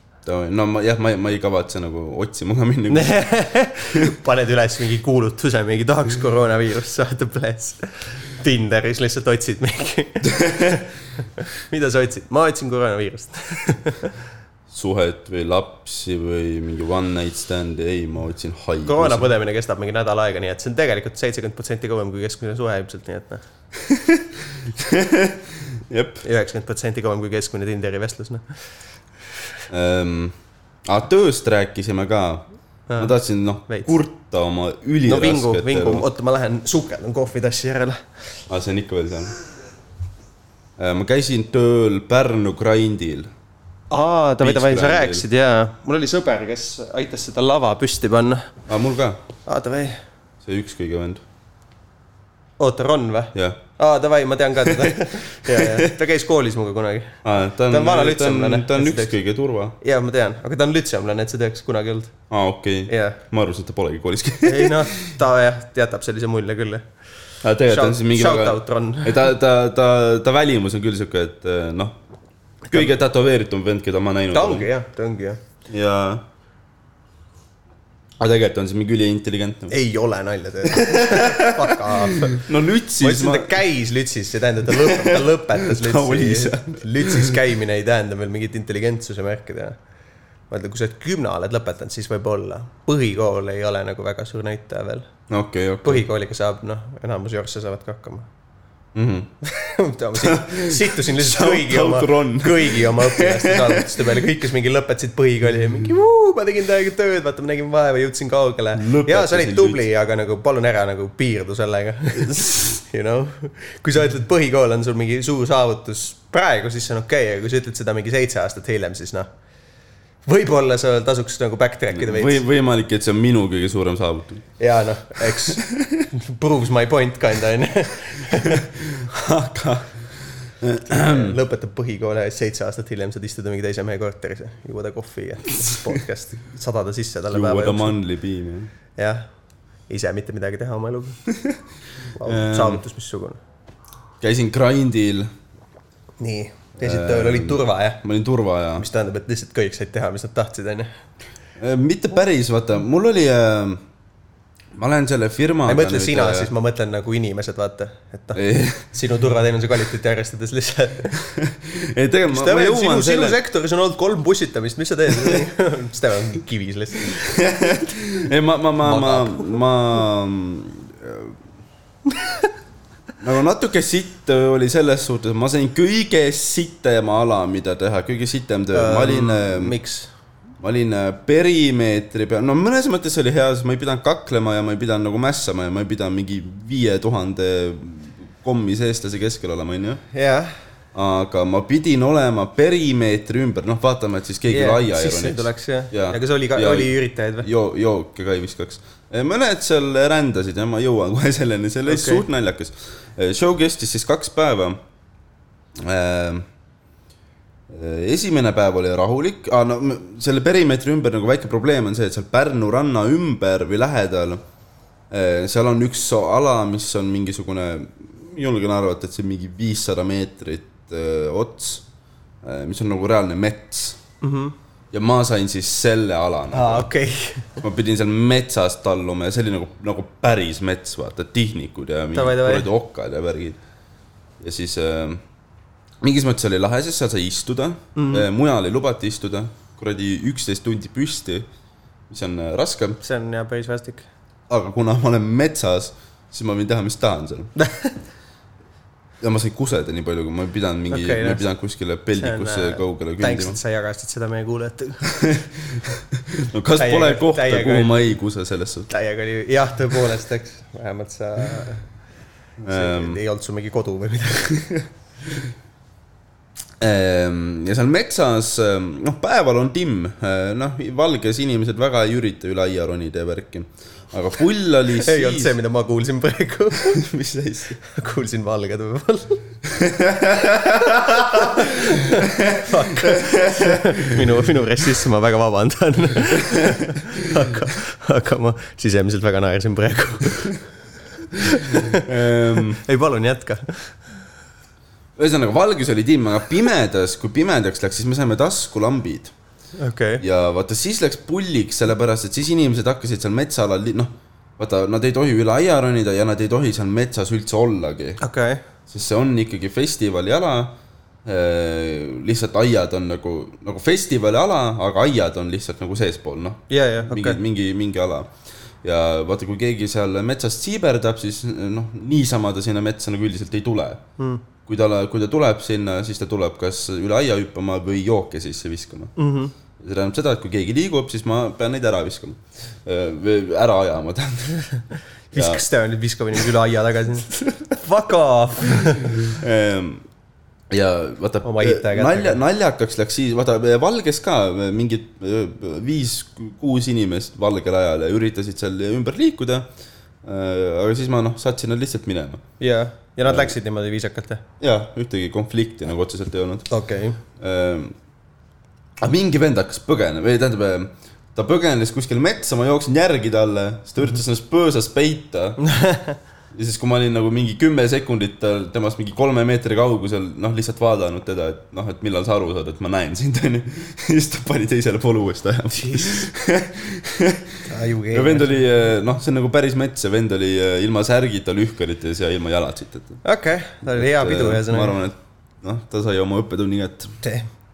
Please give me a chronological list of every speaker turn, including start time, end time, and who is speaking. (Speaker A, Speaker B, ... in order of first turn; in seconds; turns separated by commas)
Speaker A: 0.3-3.2, Speaker B: 2.9-10.8, Speaker A: 10.4-10.8, Speaker B: 11.4-14.1, Speaker A: 14.7-19.3, Speaker B: 18.9-23.4, Speaker A: 23.8-26.2, Speaker B: 26.2-28.6, Speaker A: 29.7-30.4, Speaker A: 30.9-32.5, Speaker B: 32.9-33.1, Speaker A: 33.0-36.1, Speaker B: 35.1-38.0, Speaker A: 38.5-39.3, Speaker A: 40.8-43.3, Speaker B: 43.9-48.5, Speaker A: 44.4-45.2, Speaker A: 48.7-49.2, Speaker B: 49.5-50.0, Speaker A: 50.4-51.2, Speaker B: 52.6-59.1, Speaker A: 53.3-53.6, Speaker A: 54.7-55.9, Speaker A: 57.2-59.8, Speaker B: 59.8-62.1, Speaker A: 62.3-64.9, Speaker B: 62.9-63.2, Speaker B: 64.4-66.9, Speaker A: 67.4-72.0, Speaker B: 67.7-69.3, Speaker B: 72.7-72.9, Speaker A: 72.7-74.7, Speaker B: 74.3-75.4, Speaker A: 75.7-76.2, Speaker A: 78.2-79.7, Speaker B: 79.7-82.4, Speaker A: 80.7-83.6, Speaker B: 83.0-89.8, Speaker A: 84.7-87.4, Speaker B: 90.5-95.1, Speaker A: 95.3-96.0, Speaker B: 95.8-98.3, Speaker A: 99.0-99.3, Speaker B: 99.4-119.3, Speaker A: 100.2-104.2, Speaker A: 108.8-109.8, Speaker B: 120.3-122.4, Speaker A: 121.9-124.5, Speaker B: 124.6-128.7, Speaker A: 125.2-126.1, Speaker A: 128.4-131.4, Speaker B: 130.9-138.0, Speaker A: 137.3-138.7, Speaker B: 139.0-139.3, Speaker B: 139.9-141.2, Speaker A: 141.3-141.6, Speaker B: 142.2-143.4, Speaker A: 142.2-142.8, Speaker A: 144.2-145.3, Speaker B: 146.2-148.0, Speaker A: 146.8-148.8, Speaker B: 148.8-150.9, Speaker A: 151.6-153.8, Speaker A: 154.8-156.5, Speaker B: 155.7-161.2, Speaker A: 158.3-158.9, Speaker A: 161.2-163.4, Speaker B: 162.3-167.4, Speaker A: 167.1-171.4, Speaker B: 168.8-169.6, Speaker A: 173.2-179.7, Speaker B: 178.7-180.1, Speaker A: 180.6-190.0, Speaker B: 190.1-190.6, Speaker A: 190.9-204.8, Speaker B: 194.5-197.5, Speaker B: 201.9-202.3, Speaker A: 205.8-206.5, Speaker A: 207.7-214.4, Speaker A: 215.1-221.8, Speaker A: 222.4-224.0, Speaker B: 224.2-224.6, Speaker A: 224.9-226.9, Speaker B: 226.5-227.6, Speaker A: 227.6-233.6, Speaker B: 232.1-232.7, Speaker A: 234.4-235.2, Speaker A: 236.0-241.5, Speaker B: 237.9-238.3, Speaker A: 242.1-243.0, Speaker B: 243.0-244.1, Speaker A: 244.5-247.5, Speaker B: 247.6-248.0, Speaker A: 249.2-253.6, Speaker B: 250.9-251.4, Speaker B: 252.2-255.1, Speaker A: 255.0-258.9, Speaker B: 256.8-258.1, Speaker B: 258.9-261.9, Speaker A: 262.6-263.2, Speaker B: 262.7-264.7, Speaker A: 266.8-275.6, Speaker B: 275.0-277.0, Speaker A: 276.8-277.8, Speaker B: 277.8-279.4, Speaker A: 279.6-284.2, Speaker B: 280.7-290.6, Speaker A: 286.5-287.0, Speaker B: 291.3-293.9, Speaker A: 291.4-292.8, Speaker A: 295.2-299.3, Speaker B: 299.8-300.2, Speaker A: 300.2-308.2, Speaker B: 308.2-308.6, Speaker A: 308.9-310.7, Speaker A: 311.2-318.3, Speaker B: 316.7-317.4, Speaker A: 318.8-324.0, Speaker B: 324.2-324.4, Speaker A: 324.7-329.1, Speaker B: 329.2-329.5, Speaker A: 329.8-334.6, Speaker B: 335.3-339.2, Speaker A: 335.3-335.6, Speaker A: 339.0-340.0, Speaker A: 340.7-349.7, Speaker B: 341.4-342.4, Speaker A: 350.2-352.4, Speaker B: 352.6-354.4, Speaker A: 353.3-353.5, Speaker A: 354.6-356.7, Speaker B: 356.7-357.2, Speaker A: 357.4-357.9, Speaker A: 359.0-365.6, Speaker B: 365.6-366.2, Speaker A: 366.5-383.2, Speaker B: 375.7-376.3, Speaker B: 377.7-378.6, Speaker B: 383.2-385.0, Speaker A: 383.9-387.2, Speaker B: 387.2-387.5